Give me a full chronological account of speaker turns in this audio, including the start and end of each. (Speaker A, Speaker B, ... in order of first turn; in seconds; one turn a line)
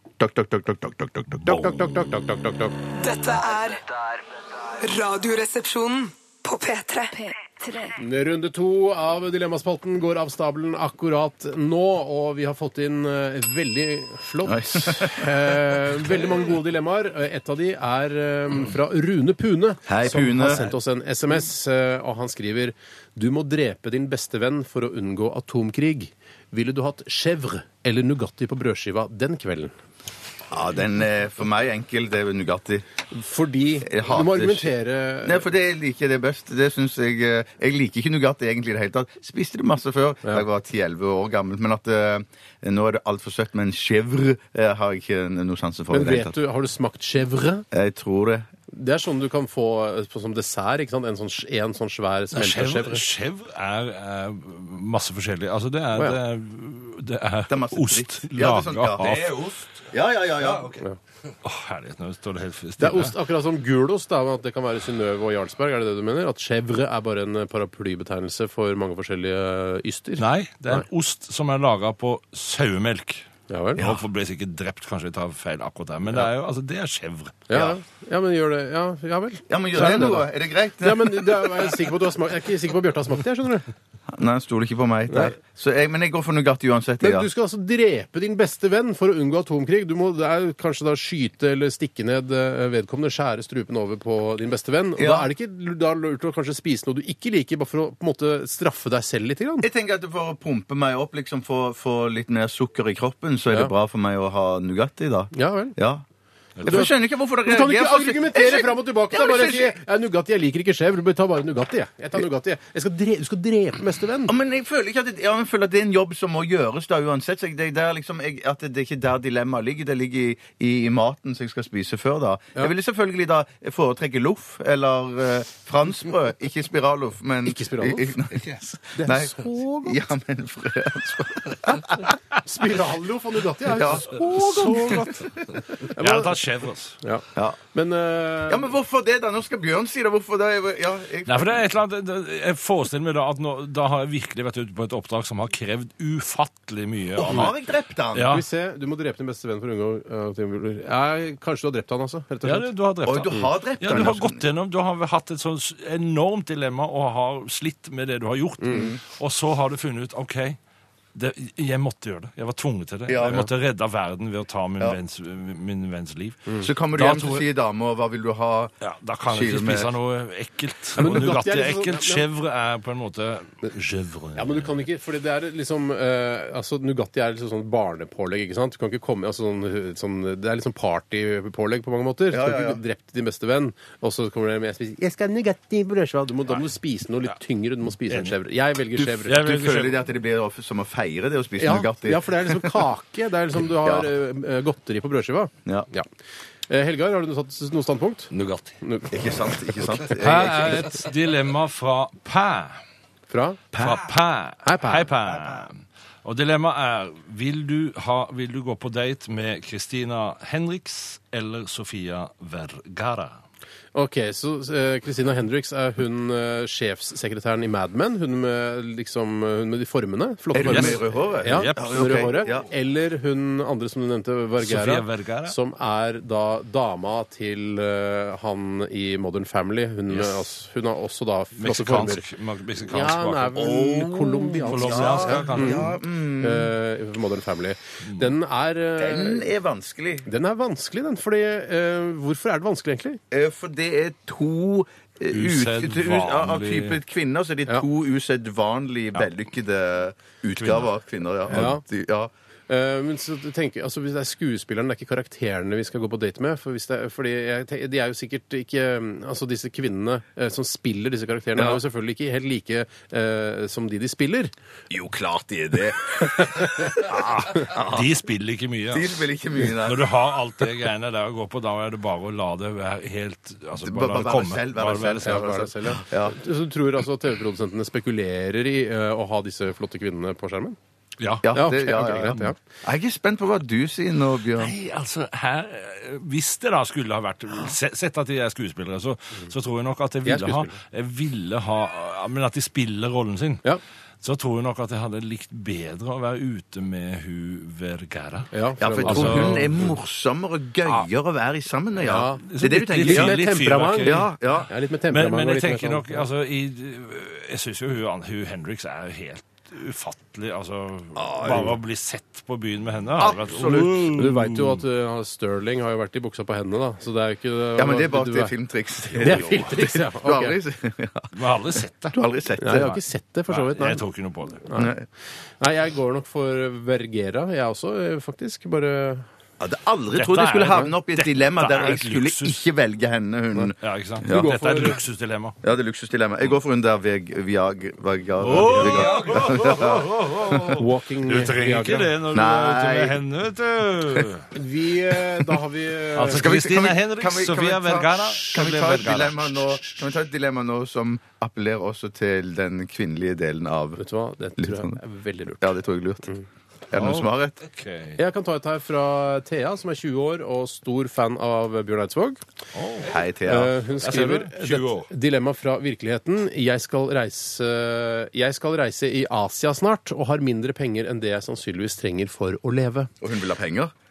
Speaker A: 0.2-1.5
Speaker B: 1.4-2.8
Speaker C: 2.9-7.9
Speaker B: 8.0-29.7
Speaker A: 14.4-15.4
Speaker A: 19.9-20.7
Speaker A: 30.5-32.8
Speaker B: 33.1-35.5
Speaker A: 33.8-34.7
Speaker A: 35.2-46.3
Speaker B: 45.9-47.6
Speaker A: 47.7-48.5
Speaker B: 48.7-53.0
Speaker D: 52.3-59.4
Speaker A: 57.5-60.8
Speaker E: 59.0-60.8
Speaker D: 61.4-63.1
Speaker B: 62.8-70.8
Speaker D: 70.2-77.5
Speaker B: 73.5-73.8
Speaker A: 73.8-74.0
Speaker B: 77.5-83.7
Speaker A: 77.5-77.8
Speaker A: 79.5-81.7
Speaker A: 84.1-87.3
Speaker B: 85.1-85.3
Speaker B: 87.0-99.7
Speaker A: 95.0-95.3
Speaker A: 99.6-106.0
Speaker B: 105.3-105.8
Speaker D: 106.6-106.9
Speaker A: 106.6-109.7
Speaker B: 107.4-114.3
Speaker A: 114.3-132.1
Speaker B: 127.5-130.0
Speaker B: 132.4-136.3
Speaker A: 133.6-135.3
Speaker D: 135.9-137.0
Speaker B: 137.0-138.7
Speaker A: 138.5-141.6
Speaker D: 141.2-147.5
Speaker A: 147.2-148.3
Speaker D: 148.1-148.4
Speaker B: 148.3-152.7
Speaker D: 152.4-160.6
Speaker A: 153.0-154.4
Speaker B: 158.6-158.9
Speaker A: 158.7-159.0
Speaker D: 161.1-167.5
Speaker A: 163.1-163.4
Speaker A: 166.6-168.7
Speaker D: 168.8-174.7
Speaker A: 169.2-169.9
Speaker B: 171.0-172.2
Speaker B: 174.3-189.4
Speaker A: 182.3-182.8
Speaker D: 188.1-188.3
Speaker A: 189.0-192.8
Speaker D: 189.2-190.0
Speaker B: 191.6-196.1
Speaker A: 193.8-194.1
Speaker B: 196.7-198.3
Speaker E: 198.3-198.8
Speaker B: 198.8-199.1
Speaker A: 199.1-201.0
Speaker D: 200.2-202.8
Speaker B: 203.3-203.6
Speaker A: 203.7-204.1
Speaker D: 203.8-213.3
Speaker B: 204.6-205.1
Speaker B: 213.9-232.2
Speaker A: 220.5-222.7
Speaker D: 220.6-222.3
Speaker D: 224.6-225.5
Speaker D: 230.1-230.4
Speaker D: 231.6-233.6
Speaker B: 232.9-239.5
Speaker A: 233.5-236.7
Speaker D: 234.7-235.9
Speaker D: 238.0-238.3
Speaker A: 239.0-240.3
Speaker B: 240.2-243.2
Speaker A: 243.3-252.3
Speaker D: 245.3-247.0
Speaker D: 250.6-250.9
Speaker B: 251.5-251.8
Speaker B: 252.7-264.5
Speaker A: 264.9-268.1
Speaker D: 266.9-269.1
Speaker A: 268.9-270.1
Speaker D: 269.7-275.6
Speaker A: 273.8-276.4
Speaker B: 275.2-280.8
Speaker D: 281.2-281.4
Speaker A: 281.4-284.7
Speaker B: 281.5-282.6
Speaker D: 284.6-293.6
Speaker B: 290.2-290.7
Speaker D: 294.2-298.5
Speaker B: 298.5-299.8
Speaker A: 298.8-303.4
Speaker D: 299.0-299.8
Speaker B: 302.0-306.2
Speaker D: 302.4-304.3
Speaker A: 304.0-304.7
Speaker D: 305.1-314.8
Speaker A: 311.1-311.7
Speaker A: 313.2-314.1
Speaker B: 314.1-318.5
Speaker A: 317.8-321.3
Speaker B: 319.1-320.6
Speaker D: 321.3-322.2
Speaker A: 322.1-323.0
Speaker B: 322.6-324.0
Speaker D: 323.5-324.6
Speaker B: 324.6-324.9
Speaker A: 324.8-325.0
Speaker B: 325.6-329.3
Speaker A: 329.6-334.6
Speaker D: 330.1-332.6
Speaker D: 333.8-335.6
Speaker B: 334.2-335.0
Speaker A: 335.6-340.8
Speaker D: 338.4-344.5
Speaker B: 340.7-342.1
Speaker A: 342.3-343.2
Speaker B: 344.5-346.4
Speaker D: 346.1-349.8
Speaker A: 346.3-354.0
Speaker B: 354.0-355.7
Speaker A: 354.6-355.0
Speaker A: 355.6-356.3
Speaker A: 356.9-357.6
Speaker D: 356.9-358.2
Speaker B: 358.2-362.4
Speaker D: 362.7-363.2
Speaker A: 363.0-363.8
Speaker B: 363.4-373.1
Speaker D: 364.0-365.1
Speaker A: 373.2-373.9